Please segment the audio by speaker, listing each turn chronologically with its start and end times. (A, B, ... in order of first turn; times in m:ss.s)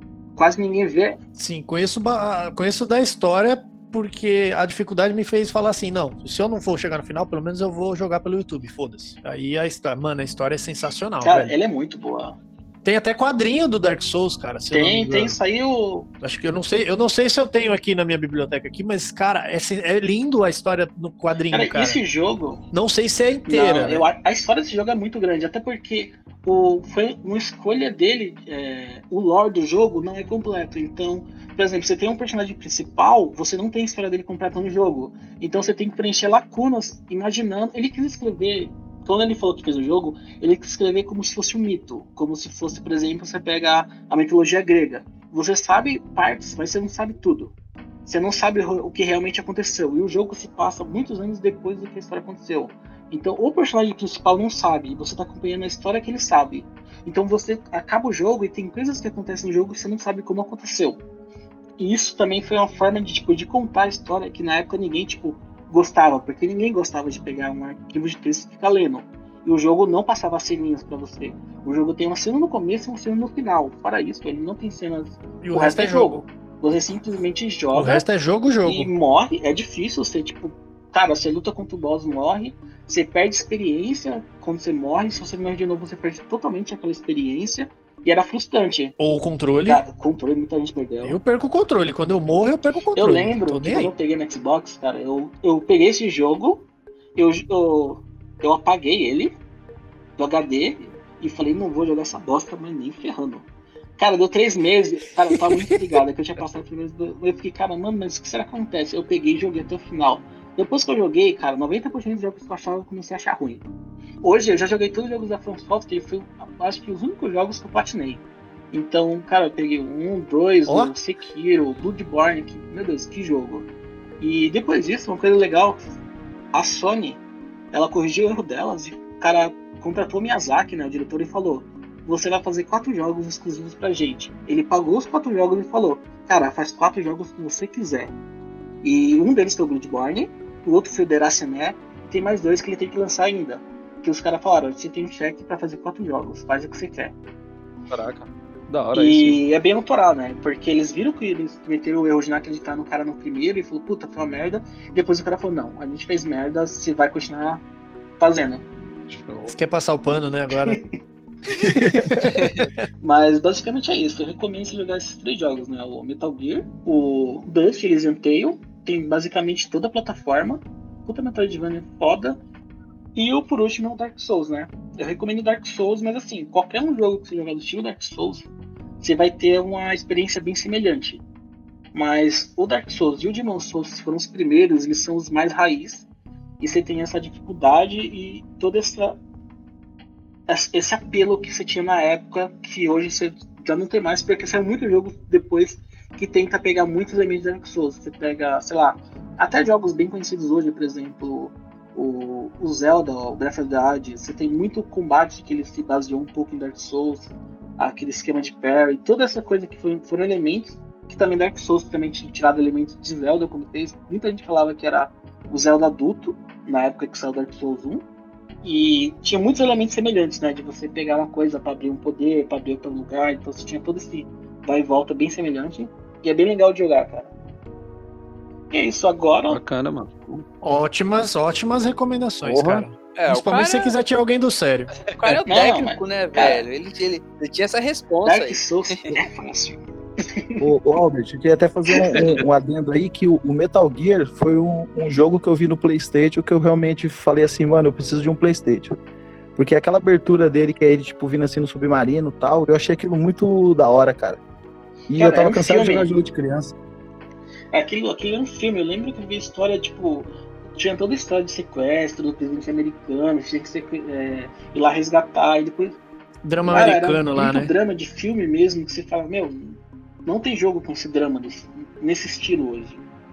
0:00.4-0:01.2 A
0:01.4-0:11.6 B
0:11.2-0:12.4 A
0:12.8-0:15.4 B
0:14.7-0:16.1 A
0:16.2-0:22.0 B
0:21.5-0:22.6 A
0:22.7-0:24.1 B
0:23.5-0:47.5 A
0:48.1-1:01.0 A
1:01.8-1:18.1 A
1:15.4-1:16.2 B
1:17.7-1:18.9 B
1:18.6-1:29.0 A
1:29.0-1:29.8 B
1:29.6-1:31.2 A
1:31.0-1:33.9 B
1:33.0-1:39.4 A
1:40.2-1:43.5 A
1:44.0-1:53.6 A
1:45.4-1:45.8 B
1:54.2-2:03.7 A
2:00.7-2:00.9 B
2:04.2-2:05.8 A
2:06.5-2:18.2 A
2:18.8-2:27.1 A
2:27.9-2:29.4 C
2:29.0-2:37.6 A
2:38.2-2:38.6 A
2:39.1-2:39.5 C
2:39.5-2:40.8 B
2:41.5-2:42.7 B
2:43.0-2:52.4 A
2:53.2-2:58.5 A
2:59.0-3:01.2 A
3:01.9-3:06.1 A
3:06.6-3:09.2 A
3:10.5-3:38.0 A
3:38.6-3:47.3 A
3:48.7-3:49.6 A
3:49.5-3:50.5 C
3:50.6-3:54.9 B
3:52.4-3:52.8 C
3:53.2-3:54.0 D
3:55.1-3:59.1 D
3:55.5-3:56.6 A
3:58.3-4:00.6 A
4:00.6-4:08.9 E
4:09.6-4:14.4 E
4:15.1-4:16.8 E
4:15.2-4:16.1 A
4:17.7-4:26.0 A
4:26.4-4:27.7 B
4:26.7-4:33.0 A